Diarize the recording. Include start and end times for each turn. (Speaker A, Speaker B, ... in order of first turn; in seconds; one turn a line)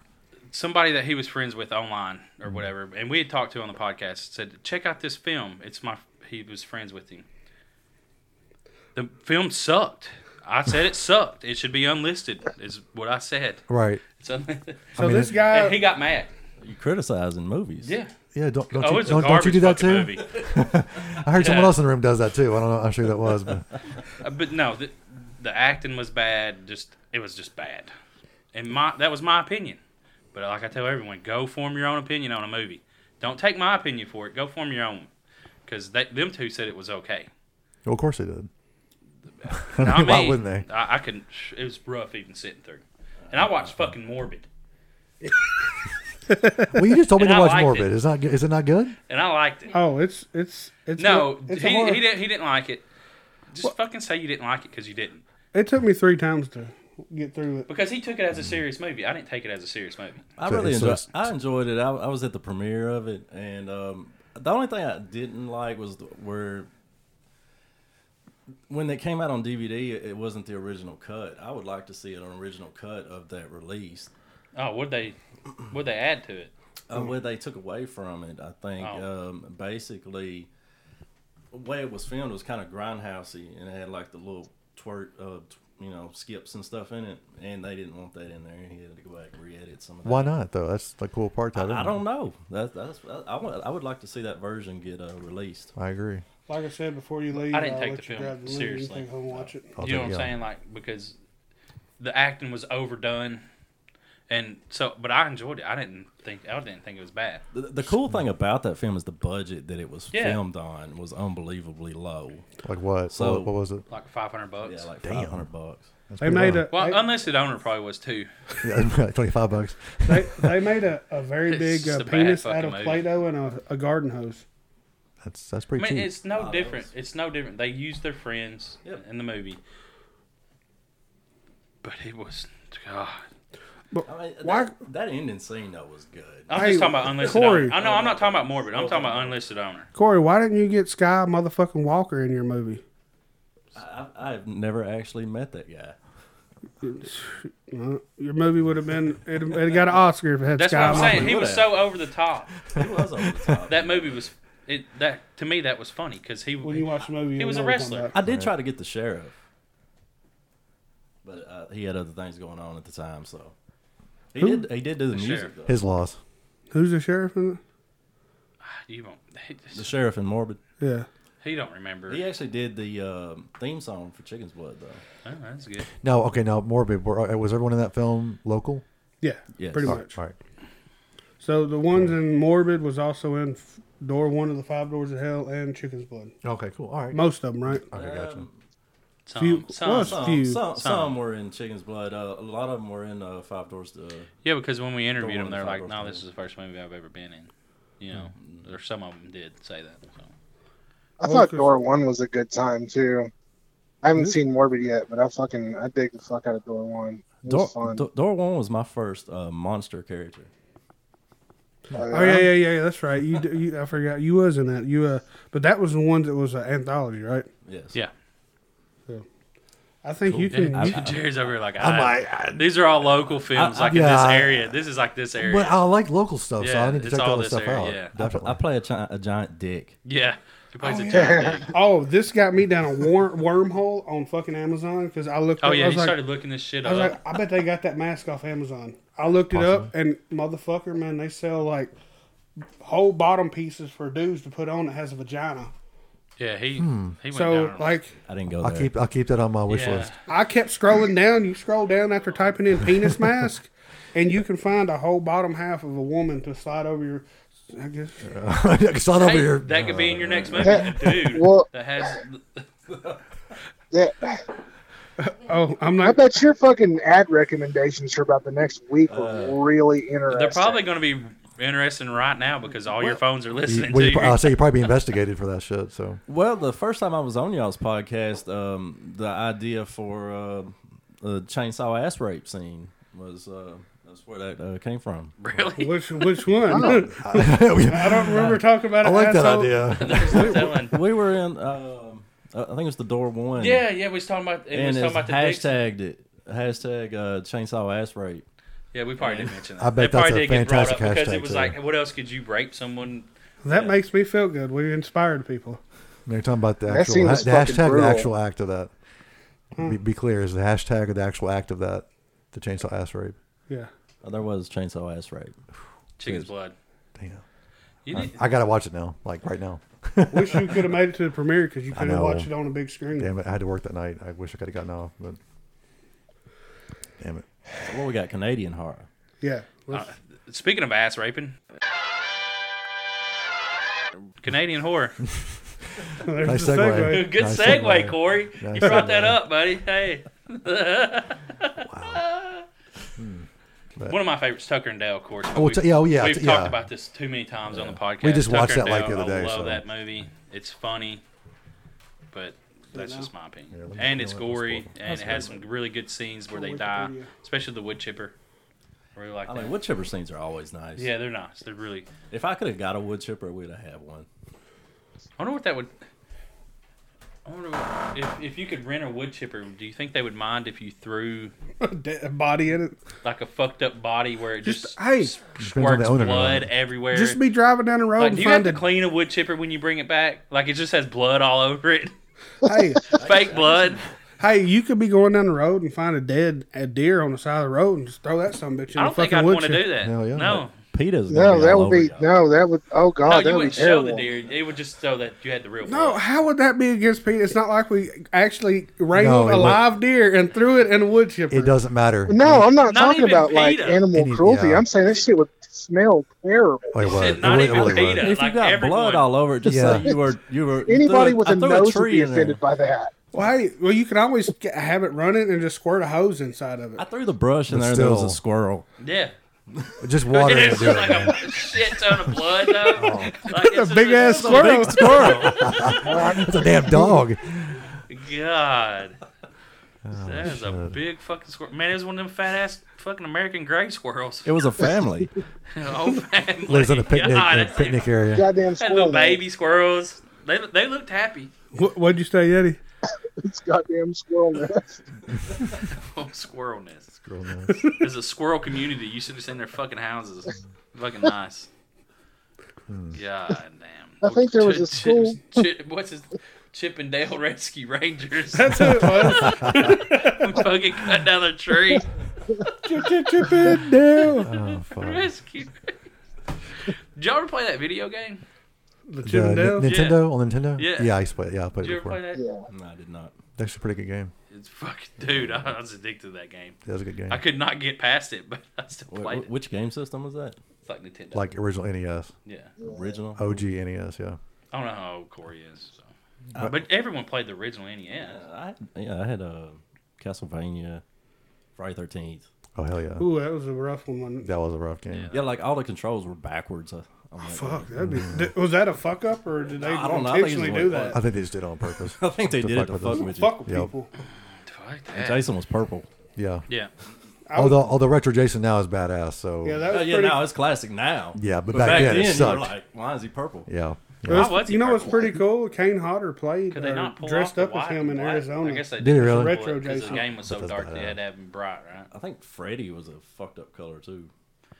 Speaker A: 0.5-7.2
Speaker A: 8.9-13.6
Speaker B: 13.7-14.0
Speaker A: 14.2-16.3
Speaker B: 15.0-15.4
Speaker C: 15.0-15.8
Speaker D: 16.6-17.9
Speaker A: 17.8-18.1
Speaker B: 18.3-23.7
Speaker A: 18.7-20.4
Speaker A: 21.4-21.7
Speaker A: 24.2-27.9
Speaker A: 28.5-29.8
Speaker A: 30.3-35.1
Speaker A: 35.6-37.3
Speaker B: 37.8-38.5
Speaker A: 39.5-44.5
Speaker B: 39.7-40.6
Speaker C: 45.2-45.5
Speaker C: 46.3-46.8
Speaker B: 46.7-49.0
Speaker A: 47.2-47.9
Speaker A: 49.1-49.8
Speaker C: 49.7-52.0
Speaker A: 51.0-52.8
Speaker A: 53.5-55.2
Speaker C: 55.5-57.7
Speaker A: 57.7-60.3
Speaker D: 60.4-66.7
Speaker B: 60.5-61.1
Speaker D: 68.7-74.1
Speaker A: 74.5-75.2
Speaker A: 75.7-76.5
Speaker D: 76.9-80.5
Speaker A: 78.8-79.0
Speaker D: 81.5-90.3
Speaker B: 90.0-91.9
Speaker D: 91.5-95.7
Speaker B: 95.8-96.2
Speaker C: 96.5-99.7
Speaker A: 97.4-99.1
Speaker B: 99.8-100.3
Speaker A: 99.8-101.2
Speaker A: 102.0-103.4
Speaker A: 104.3-107.4
Speaker D: 107.5-112.5
Speaker A: 110.1-110.4
Speaker B: 112.6-113.8
Speaker D: 113.1-113.5
Speaker A: 113.9-114.9
Speaker D: 114.6-115.9
Speaker B: 115.0-115.5
Speaker B: 116.1-116.7
Speaker C: 116.2-117.1
Speaker A: 116.7-118.3
Speaker B: 118.6-120.6
Speaker C: 120.0-124.4
Speaker A: 121.5-123.0
Speaker B: 125.2-126.1
Speaker A: 125.8-129.6
Speaker D: 126.3-126.9
Speaker A: 131.8-133.2
Speaker C: 133.9-134.7
Speaker D: 134.1-139.4
Speaker A: 136.5-139.9
Speaker C: 136.5-137.8
Speaker C: 139.9-142.8
Speaker D: 143.7-145.9
Speaker C: 146.8-151.4
Speaker A: 150.6-152.5
Speaker D: 150.8-151.8
Speaker D: 152.7-154.2
Speaker A: 153.7-158.1
Speaker C: 156.6-158.1
Speaker D: 158.1-159.3
Speaker B: 158.2-158.5
Speaker D: 161.2-163.5
Speaker D: 164.3-165.8
Speaker C: 164.4-164.7
Speaker A: 165.1-165.5
Speaker B: 165.7-166.2
Speaker C: 166.7-167.6
Speaker A: 168.6-169.9
Speaker D: 169.7-170.6
Speaker C: 170.8-171.1
Speaker A: 171.4-172.2
Speaker D: 172.1-175.0
Speaker A: 175.2-175.8
Speaker B: 176.0-178.8
Speaker C: 179.2-180.2
Speaker D: 179.6-180.0
Speaker B: 179.8-180.3
Speaker C: 181.4-186.3
Speaker B: 186.4-188.4
Speaker C: 187.1-187.9
Speaker D: 187.9-188.6
Speaker A: 189.3-191.1
Speaker C: 189.4-190.6
Speaker D: 190.0-194.3
Speaker A: 194.4-200.3
Speaker D: 195.2-196.2
Speaker D: 198.3-198.7
Speaker E: 201.2-203.3
Speaker C: 201.2-201.7
Speaker E: 204.0-208.0
Speaker D: 207.4-210.5
Speaker E: 211.9-212.5
Speaker C: 211.9-217.5
Speaker D: 217.6-218.0
Speaker C: 220.0-221.0
Speaker D: 220.3-221.2
Speaker A: 220.5-225.8
Speaker B: 221.8-222.6
Speaker D: 223.5-224.1
Speaker B: 223.8-224.7
Speaker B: 225.4-228.6
Speaker A: 226.6-228.1
Speaker D: 228.2-230.0
Speaker A: 230.0-231.8
Speaker C: 230.8-236.2
Speaker E: 230.9-231.7
Speaker A: 235.6-237.2
Speaker C: 236.8-241.9
Speaker B: 239.5-239.9
Speaker C: 242.8-245.7
Speaker A: 246.4-247.9
Speaker B: 246.8-247.2
Speaker C: 247.3-248.1
Speaker D: 248.3-248.9
Speaker B: 248.6-250.1
Speaker A: 249.7-250.2
Speaker C: 250.3-258.3
Speaker B: 253.0-253.5
Speaker B: 258.2-261.1
Speaker A: 259.2-262.6
Speaker E: 260.6-261.7
Speaker E: 263.9-264.4
Speaker C: 265.2-266.3
Speaker E: 266.0-270.8
Speaker D: 269.1-269.6
Speaker A: 270.3-274.7
Speaker B: 273.6-276.2
Speaker D: 276.3-285.4
Speaker A: 285.4-286.4
Speaker C: 285.8-289.8
Speaker E: 286.7-287.1
Speaker B: 287.2-290.8
Speaker A: 289.9-291.0
Speaker D: 290.3-293.9
Speaker A: 293.6-295.7
Speaker D: 294.7-298.4
Speaker A: 298.9-303.9
Speaker D: 299.2-299.5
Speaker B: 299.8-301.8
Speaker C: 303.6-305.8
Speaker B: 306.3-308.9
Speaker E: 306.9-308.3
Speaker B: 309.8-313.4
Speaker D: 314.2-315.6
Speaker A: 316.2-316.7
Speaker B: 317.1-317.4
Speaker A: 318.1-318.4
Speaker B: 318.1-320.9
Speaker C: 320.3-323.3
Speaker B: 321.9-322.5
Speaker B: 323.1-325.4
Speaker B: 327.2-327.4
Speaker D: 327.8-329.1
Speaker C: 329.4-330.1
Speaker A: 329.9-331.6
Speaker A: 334.4-335.2
Speaker B: 335.2-335.5
Speaker C: 336.2-337.3
Speaker B: 336.4-339.4
Speaker A: 337.1-342.6
Speaker B: 341.8-342.2
Speaker B: 343.2-344.2
Speaker A: 344.1-351.2
Speaker B: 345.5-346.8
Speaker B: 347.7-349.8
Speaker A: 352.3-358.3
Speaker C: 352.9-353.3
Speaker B: 353.7-355.6
Speaker C: 356.5-357.3
Speaker A: 359.1-359.8
Speaker D: 359.4-361.1
Speaker A: 361.0-362.1
Speaker D: 362.3-364.3
Speaker A: 365.4-365.9
Speaker A: 367.4-371.5
Speaker C: 371.8-372.9
Speaker A: 373.2-377.4
Speaker C: 374.6-375.4
Speaker B: 375.6-376.7
Speaker C: 377.1-378.8
Speaker A: 378.2-382.1
Speaker C: 382.6-383.0
Speaker D: 383.1-384.1
Speaker A: 383.1-384.0
Speaker C: 384.4-389.9
Speaker A: 388.9-390.7
Speaker B: 390.0-390.6
Speaker D: 390.9-392.4
Speaker E: 391.3-394.2
Speaker A: 393.2-396.2
Speaker C: 395.8-401.7
Speaker B: 399.1-399.9
Speaker B: 401.5-402.7
Speaker E: 402.3-407.6
Speaker A: 402.9-404.0
Speaker B: 404.1-404.9
Speaker B: 406.9-408.3
Speaker A: 407.0-409.3
Speaker D: 407.9-412.6
Speaker B: 409.6-410.1
Speaker E: 410.9-413.1
Speaker C: 413.3-417.0
Speaker D: 417.0-418.9
Speaker B: 417.7-418.4
Speaker A: 419.0-419.3
Speaker B: 420.0-421.4
Speaker A: 420.3-426.3
Speaker B: 422.9-423.5
Speaker C: 423.5-425.5
Speaker D: 424.1-425.8
Speaker B: 425.2-427.9
Speaker E: 425.9-427.1
Speaker A: 428.1-429.2
Speaker B: 430.0-431.0
Speaker A: 430.2-434.5
Speaker D: 434.4-435.3
Speaker A: 435.7-441.5
Speaker B: 436.7-438.5
Speaker E: 438.3-439.4
Speaker C: 441.7-442.8
Speaker E: 443.4-445.0
Speaker A: 445.9-447.1
Speaker B: 447.2-447.8
Speaker A: 448.0-451.7
Speaker B: 452.9-453.2
Speaker A: 453.1-462.1
Speaker E: 454.2-455.6
Speaker C: 458.5-460.6
Speaker B: 458.8-459.8
Speaker C: 462.8-464.4
Speaker B: 463.6-465.3
Speaker A: 464.3-465.9
Speaker A: 466.8-468.4
Speaker C: 469.1-469.9
Speaker B: 469.2-472.2
Speaker A: 469.8-470.2
Speaker A: 470.8-471.1
Speaker A: 471.8-472.4
Speaker E: 472.3-472.6
Speaker D: 472.7-473.3
Speaker B: 473.6-474.3
Speaker A: 474.5-476.8
Speaker B: 476.8-477.4
Speaker A: 477.3-479.5
Speaker D: 479.1-480.6
Speaker A: 480.8-481.5
Speaker B: 481.3-482.3
Speaker A: 482.4-482.7
Speaker E: 482.8-483.1
Speaker D: 482.8-483.6
Speaker B: 483.4-484.4
Speaker A: 484.7-488.4
Speaker D: 488.1-491.0
Speaker D: 491.8-492.5
Speaker B: 492.8-493.2
Speaker C: 493.2-494.5
Speaker B: 494.4-495.3
Speaker A: 495.1-495.4
Speaker D: 495.3-497.9
Speaker C: 497.4-501.2
Speaker B: 498.0-498.5
Speaker D: 499.8-501.2
Speaker B: 501.1-503.9
Speaker D: 502.1-503.6
Speaker C: 503.2-504.1
Speaker A: 504.7-505.4
Speaker D: 505.1-506.1
Speaker B: 506.4-506.6
Speaker C: 507.5-507.9
Speaker B: 507.5-509.9
Speaker C: 509.6-510.5
Speaker D: 509.9-513.7
Speaker B: 511.3-512.7
Speaker B: 513.7-514.5
Speaker C: 514.2-520.3
Speaker A: 514.3-515.4
Speaker A: 516.7-522.1
Speaker B: 519.0-519.6
Speaker B: 520.3-521.2
Speaker D: 522.1-524.3